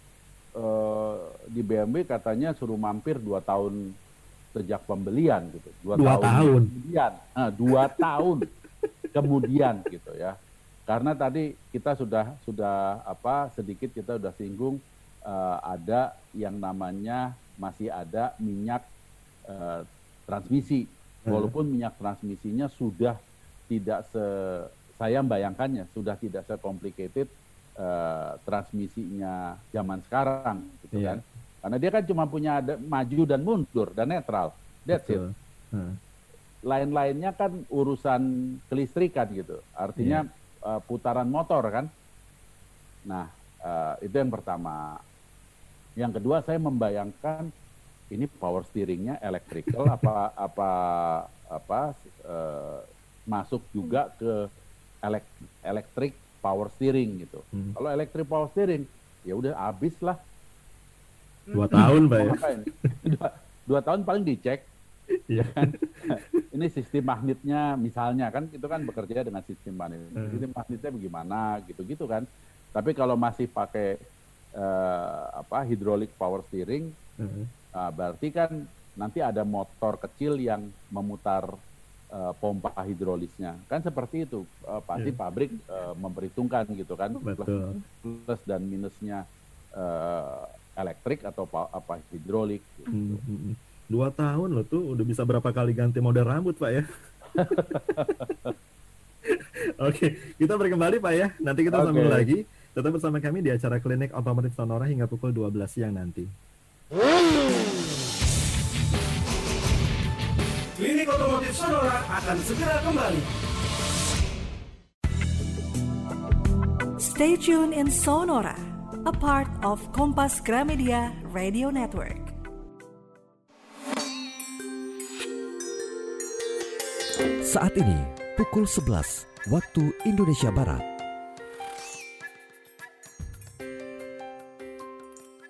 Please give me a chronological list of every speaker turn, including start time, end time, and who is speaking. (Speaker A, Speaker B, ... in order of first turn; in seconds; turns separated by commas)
Speaker A: 0.6-3.8, Speaker A: 4.5-8.5, Speaker B: 6.0-6.7, Speaker B: 7.7-8.1, Speaker A: 9.1-10.4, Speaker A: 10.9-18.8, Speaker A: 19.5-23.2, Speaker B: 21.3-21.5, Speaker A: 23.7-35.2, Speaker B: 30.9-31.2, Speaker B: 34.9-36.0, Speaker A: 36.7-41.9, Speaker B: 40.0-40.2, Speaker A: 43.1-45.0, Speaker A: 46.0-47.5, Speaker A: 48.1-54.5, Speaker B: 49.7-50.1, Speaker A: 55.0-60.2, Speaker B: 61.5-62.5, Speaker A: 61.7-64.7, Speaker B: 65.3-66.2, Speaker A: 65.4-74.0, Speaker B: 70.2-70.4, Speaker A: 74.6-76.9, Speaker B: 77.2-77.5, Speaker A: 77.8-81.5, Speaker A: 82.1-89.2, Speaker B: 87.2-87.8, Speaker A: 89.8-93.2, Speaker B: 92.9-96.8, Speaker A: 97.3-98.5, Speaker B: 97.5-97.8, Speaker B: 99.3-106.3, Speaker A: 101.7-102.3, Speaker C: 110.8-113.3, Speaker D: 117.0-122.3, Speaker E: 127.4-130.8